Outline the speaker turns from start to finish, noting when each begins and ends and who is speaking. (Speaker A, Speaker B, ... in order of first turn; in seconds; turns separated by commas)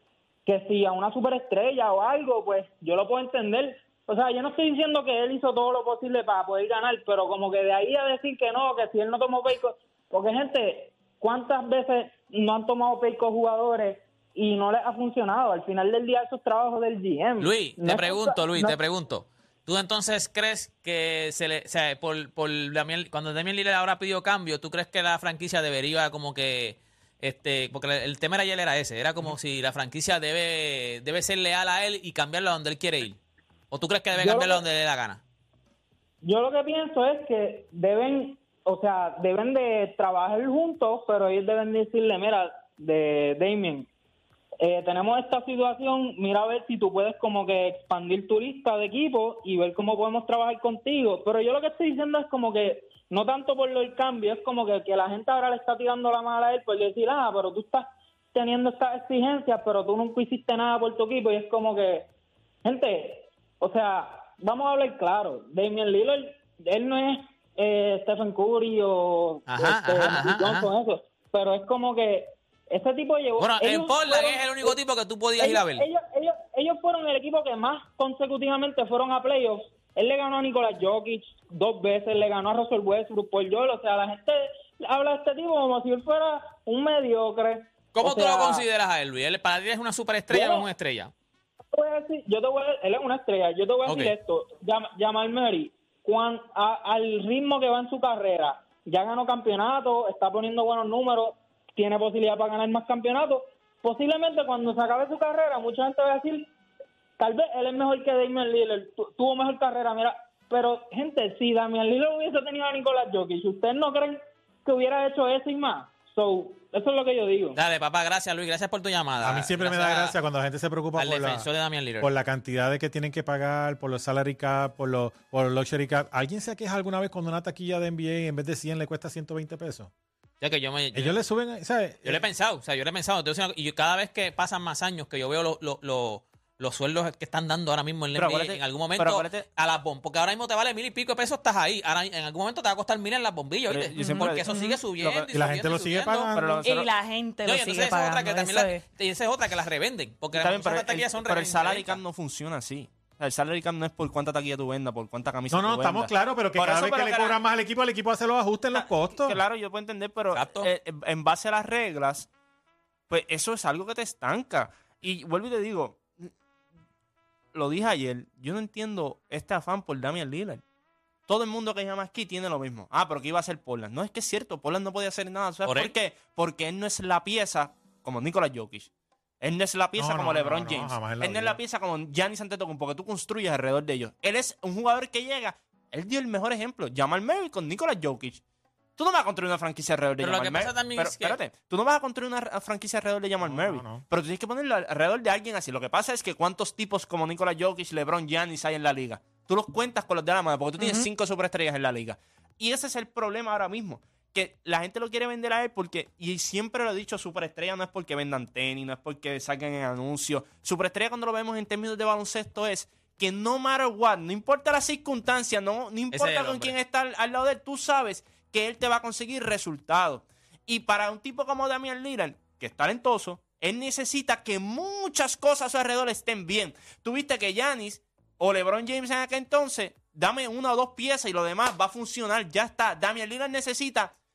Speaker A: 0.5-18.8, Speaker B: 17.4-33.2, Speaker B: 33.7-35.2, Speaker A: 34.1-34.6, Speaker A: 36.2-43.9, Speaker A: 44.6-62.1, Speaker A: 62.6-74.8, Speaker B: 69.5-70.7, Speaker B: 73.4-75.9, Speaker A: 75.4-88.6, Speaker B: 87.9-91.1, Speaker A: 90.3-90.7, Speaker A: 91.7-106.5, Speaker B: 93.8-94.1, Speaker A: 107.2-117.6, Speaker B: 117.5-120.2, Speaker C: 119.2-121.5, Speaker B: 121.0-122.1, Speaker C: 122.0-129.9, Speaker B: 130.4-131.2, Speaker C: 130.9-132.2, Speaker B: 132.0-146.3, Speaker D: 138.1-139.4, Speaker D: 143.7-145.3, Speaker E: 144.0-144.8, Speaker C: 145.3-146.6, Speaker D: 146.3-146.9, Speaker E: 146.6-148.8, Speaker B: 147.4-152.0, Speaker D: 150.3-157.4, Speaker C: 155.5-159.4, Speaker D: 158.7-162.3, Speaker B: 160.3-160.7, Speaker D: 163.1-166.3, Speaker D: 167.5-170.6, Speaker D: 171.3-178.9, Speaker B: 175.6-175.9, Speaker D: 179.4-188.4, Speaker C: 180.0-181.6, Speaker D: 189.0-234.1, Speaker B: 190.2-191.4, Speaker C: 193.4-194.1, Speaker E: 200.8-201.1, Speaker B: 216.1-216.8